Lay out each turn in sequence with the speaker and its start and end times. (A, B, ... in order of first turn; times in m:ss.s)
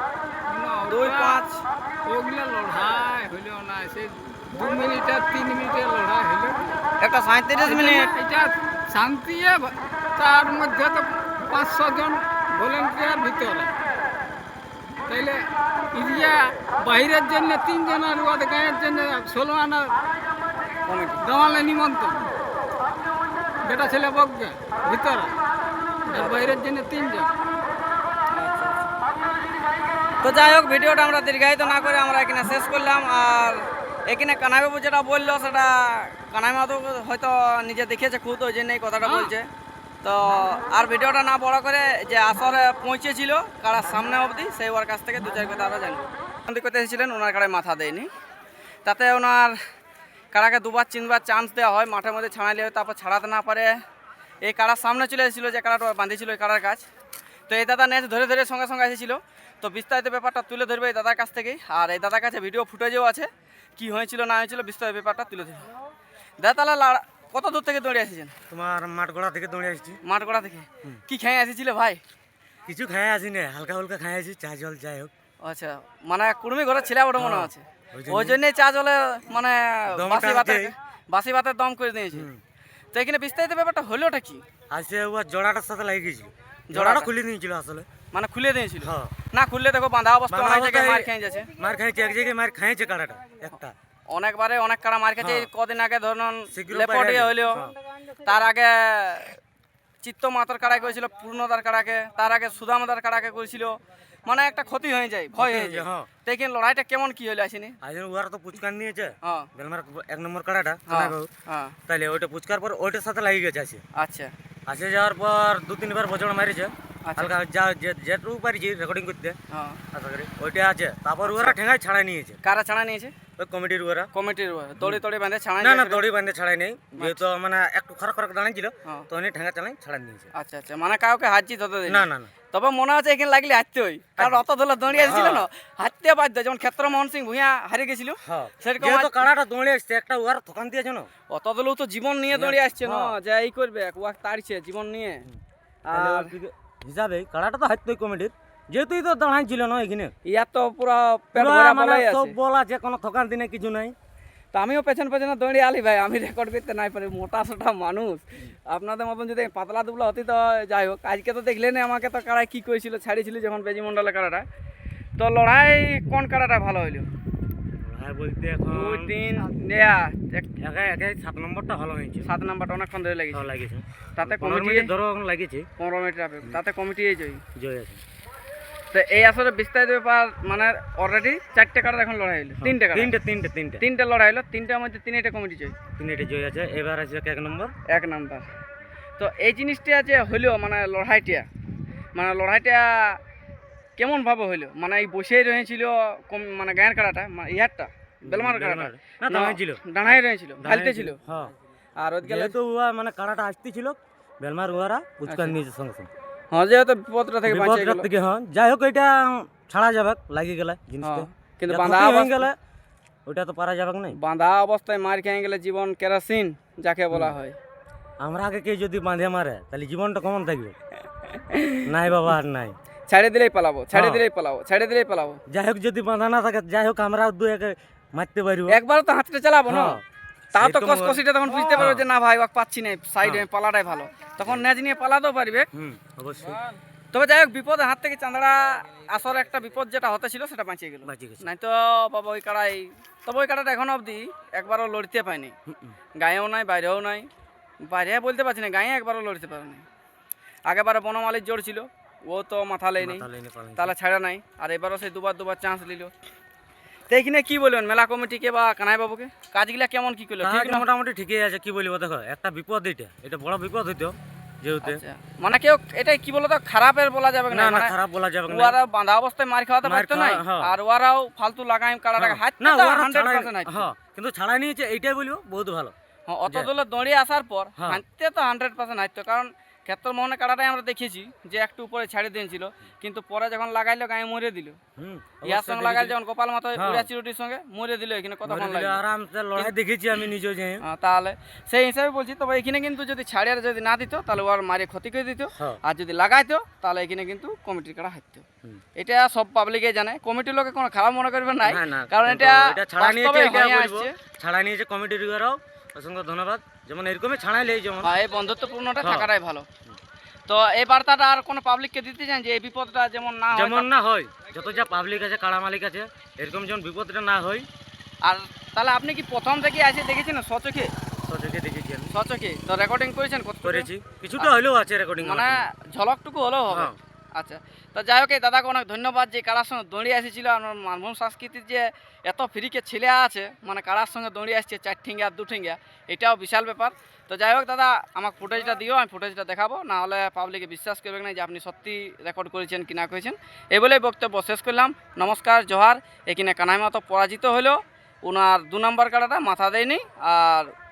0:00.5-0:01.4 A
0:00.9-0:01.6 B
0:02.1-0:06.9 A
0:07.0-0:08.1 B
0:07.5-0:13.7 A
0:15.1-0:20.0 A
0:20.9-0:21.2 B
0:21.2-0:22.3 A
0:23.6-0:25.4 A
0:26.1-0:27.4 A
0:26.2-0:26.5 B
0:28.3-0:28.9 B
0:30.2-0:39.5 B
0:39.0-0:39.4 A
0:40.0-0:48.1 B
0:48.8-0:49.6 B
0:50.3-0:53.8 B
0:54.4-0:56.8 B
0:57.5-1:05.7 B
1:06.4-1:08.4 B
1:08.5-1:10.0 C
1:10.0-1:12.0 B
1:12.7-1:15.1 C
1:15.4-1:22.3 B
1:17.2-1:18.4 C
1:19.9-1:20.8 C
1:22.1-1:22.4 C
1:22.9-1:24.4 B
1:24.7-1:27.9 C
1:26.7-1:27.0 B
1:28.1-1:31.5 B
1:28.8-1:29.1 C
1:30.3-1:33.8 C
1:34.1-1:37.6 B
1:35.2-1:35.5 C
1:36.5-1:37.7 C
1:38.2-1:39.4 B
1:40.0-1:47.8 B
1:45.4-1:46.1 C
1:47.8-1:51.3 C
1:51.0-1:51.8 B
1:51.9-1:53.8 C
1:54.0-1:54.3 B
1:54.7-1:59.4 C
1:59.5-1:59.8 B
1:59.9-2:02.4 C
2:02.5-2:03.2 B
2:03.4-2:04.1 C
2:04.1-2:06.0 B
2:05.6-2:10.3 C
2:10.4-2:19.1 B
2:11.9-2:12.3 C
2:14.2-2:15.5 C
2:18.2-2:21.1 C
2:21.3-2:25.2 B
2:22.3-2:23.2 C
2:25.9-2:30.1 C
2:30.3-2:32.3 B
2:31.4-2:34.0 C
2:34.5-2:44.5 B
2:45.2-2:47.1 B
2:47.8-2:49.1 C
2:48.7-2:50.5 B
2:50.6-2:52.3 C
2:52.3-2:53.4 B
2:53.3-2:55.7 C
2:54.2-2:54.9 B
2:55.8-2:57.4 B
2:57.6-2:58.0 C
2:58.9-3:02.9 B
3:02.6-3:03.8 C
3:03.8-3:05.8 B
3:05.9-3:07.7 C
3:07.9-3:08.5 B
3:09.2-3:11.5 B
3:12.2-3:13.2 B
3:14.0-3:21.2 B
3:18.3-3:21.5 C
3:22.0-3:22.5 B
3:22.2-3:26.1 C
3:26.5-3:28.1 B
3:27.4-3:32.6 C
3:31.0-3:32.4 B
3:33.3-3:34.2 C
3:34.2-3:37.6 B
3:37.1-3:37.4 C
3:38.2-3:40.8 C
3:41.5-3:41.8 B
3:41.8-3:42.8 C
3:43.1-3:45.4 B
3:43.9-3:44.2 C
3:45.5-3:48.8 C
3:48.7-3:49.9 B
3:49.7-3:50.0 C
3:50.6-3:51.2 C
3:50.6-3:55.7 B
3:51.8-3:52.1 C
3:55.7-3:56.6 C
3:57.1-4:05.6 B
4:01.0-4:01.5 C
4:05.7-4:06.0 C
4:06.2-4:07.3 B
4:07.8-4:09.8 B
4:10.7-4:13.0 B
4:13.0-4:13.9 C
4:13.9-4:16.1 B
4:17.1-4:20.8 B
4:20.4-4:25.0 C
4:25.0-4:27.9 B
4:27.5-4:28.8 C
4:28.6-4:33.8 B
4:29.8-4:30.7 C
4:32.2-4:35.9 C
4:36.3-4:44.8 B
4:36.5-4:36.7 C
4:37.8-4:38.0 C
4:45.0-4:46.2 C
4:45.5-4:48.9 B
4:46.8-4:47.1 C
4:48.4-4:50.8 C
4:50.9-4:58.4 B
4:59.0-5:04.2 B
5:01.6-5:08.1 C
5:08.0-5:09.7 B
5:09.0-5:09.3 C
5:10.5-5:13.9 B
5:13.5-5:17.7 C
5:18.2-5:20.9 B
5:21.2-5:22.1 C
5:22.1-5:23.8 B
5:23.6-5:25.7 C
5:25.3-5:50.7 B
5:26.7-5:27.0 C